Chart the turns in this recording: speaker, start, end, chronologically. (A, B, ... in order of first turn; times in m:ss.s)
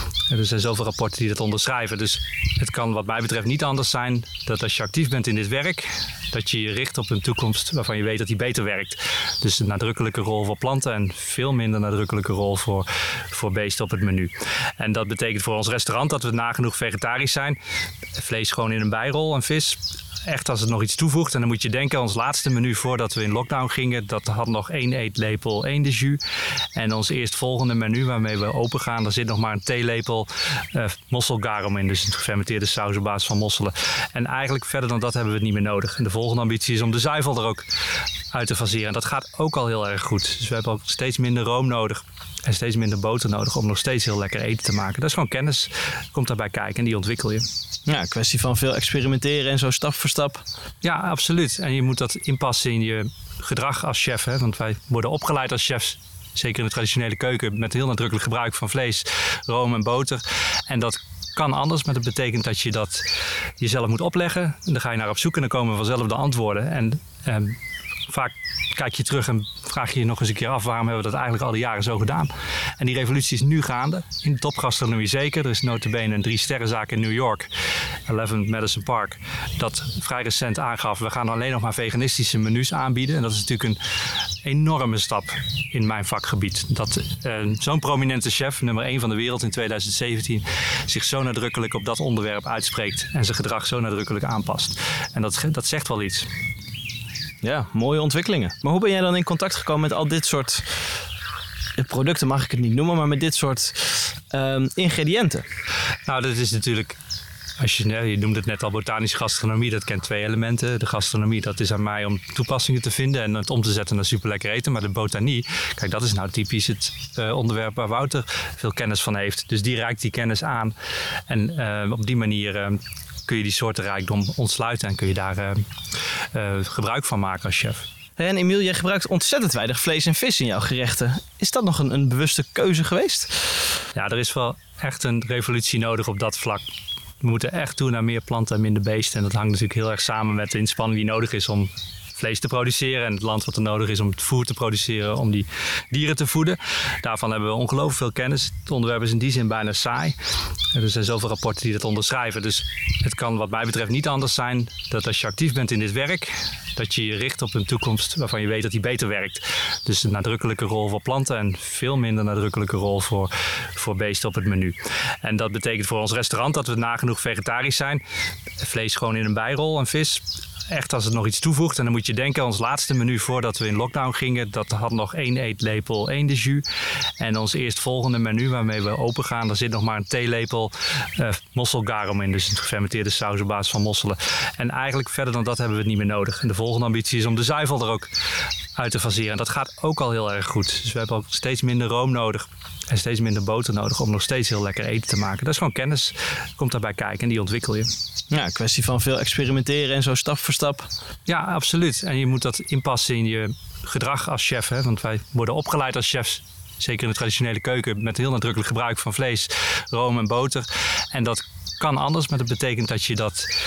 0:00.3-0:17.6 A
0:18.2-0:26.2 A
0:26.8-0:37.7 A
0:38.3-0:47.4 A
0:47.9-0:50.4 B
0:50.8-1:17.5 A
1:18.1-1:23.8 A
1:24.4-1:36.3 A
1:37.4-1:40.8 B
1:41.8-1:45.4 B
1:46.1-1:47.0 A
1:47.6-2:00.8 A
2:01.3-2:05.6 A
2:06.3-2:07.9 A
2:08.2-2:13.5 B
2:14.0-2:16.6 A
2:17.2-2:30.2 A
2:30.7-2:48.0 A
2:48.6-2:56.6 A
2:57.2-3:08.1 A
3:08.8-3:17.9 A
3:18.3-3:20.9 B
3:21.3-3:33.5 A